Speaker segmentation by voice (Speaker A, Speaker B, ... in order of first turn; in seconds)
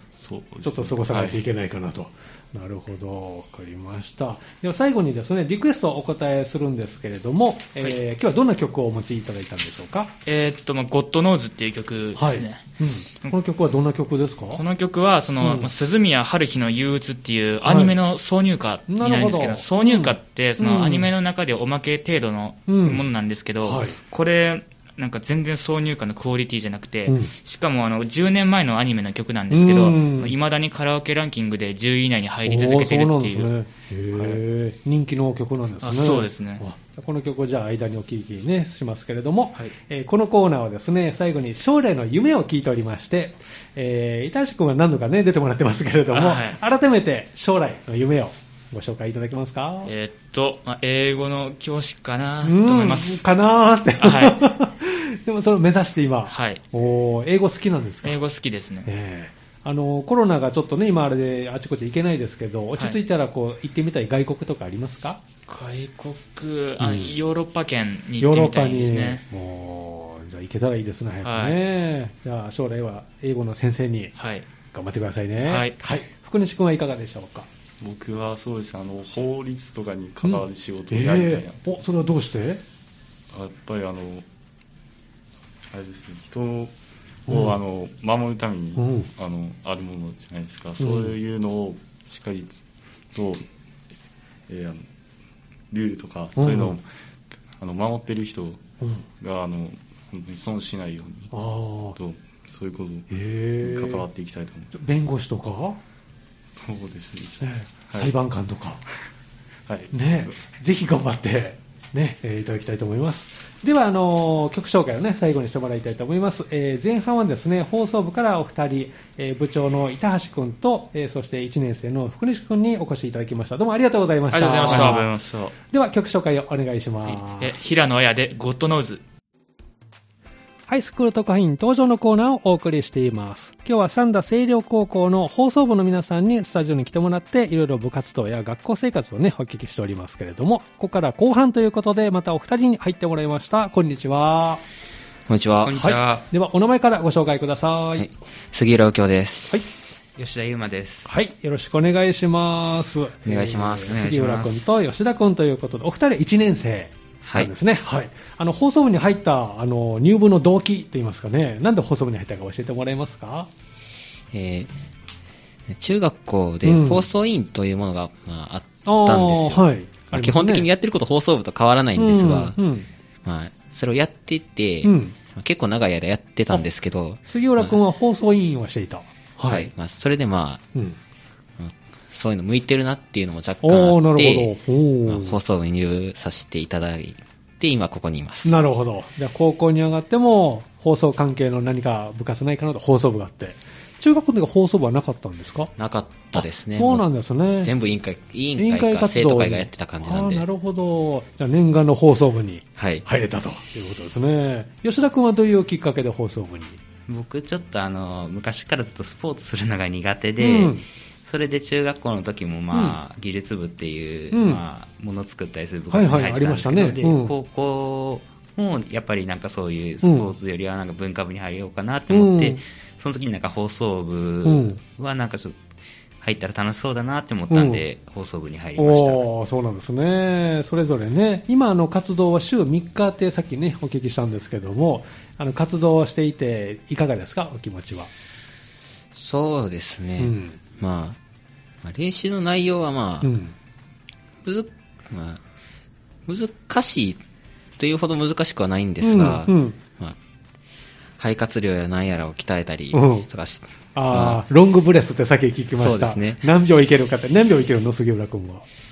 Speaker A: 0.2-1.4, 77.8-81.7, 83.3-84.3, 85.7-86.7, 87.3-92.6, 93.1-93.5, 94.5-94.9, 95.7-96.8, 97.6-98.6, 99.2-101.3, 102.0-103.1, 103.6-104.7, 106.5-108.1, 109.7-110.3, 124.7-125.5
Speaker B: 0.6-10.1, 12.2-14.6, 15.4-15.7, 17.6-17.9, 18.9-21.1, 22.7-23.0, 23.6-24.0, 27.1-27.3, 29.5-30.3, 32.5-49.9, 52.4-58.2, 58.9-65.2, 66.8-67.2, 68.2-74.1, 74.7-77.5, 80.2-82.6, 87.3-87.6, 88.8-89.1, 90.8-91.2, 96.4-96.8, 101.3-102.0, 103.1-104.1, 104.7-105.8, 107.4-108.8, 109.9-125.1, 125.7-127.6, 130.7-144.6, 145.7-148.1, 151.1-163.5, 166.7-167.1, 168.8-170.7, 172.0-172.9, 174.8-175.2, 177.3-179.7, 183.6-185.4, 188.4-195.7, 196.3-197.7, 198.6-206.8, 210.4-210.8, 214.3-214.6, 215.9-217.3, 220.0-220.3, 222.1-222.6, 224.4-224.8, 227.5-227.8, 228.8-238.1, 240.2-240.6, 243.2-243.5, 249.0-249.8, 252.9-253.3, 253.9-258.6
Speaker C: 10.3-12.6, 14.5-33.5, 35.8-36.6, 46.1-46.6, 49.9-53.2, 54.0-54.5, 56.3-56.6, 58.0-58.9, 65.5-69.2, 71.2-71.6, 74.2-74.5, 75.4-75.8, 124.3-125.1, 127.1-129.0
Speaker D: 145.3-145.8, 148.0-150.0, 153.3-154.0, 164.3-164.7, 165.7-172.6, 173.2-177.8, 179.5-180.6, 181.6-184.6, 185.1-188.6, 195.8-197.1, 197.6-200.4, 202.8-203.1, 239.2-241.2, 241.8-243.3, 244.4-245.4, 246.3-247.2, 247.8-250.2, 251.2-254.4, 255.8-256.4
Speaker E: 145.6-146.3, 150.2-151.1, 153.9-154.7, 207.1-225.6, 226.2-229.2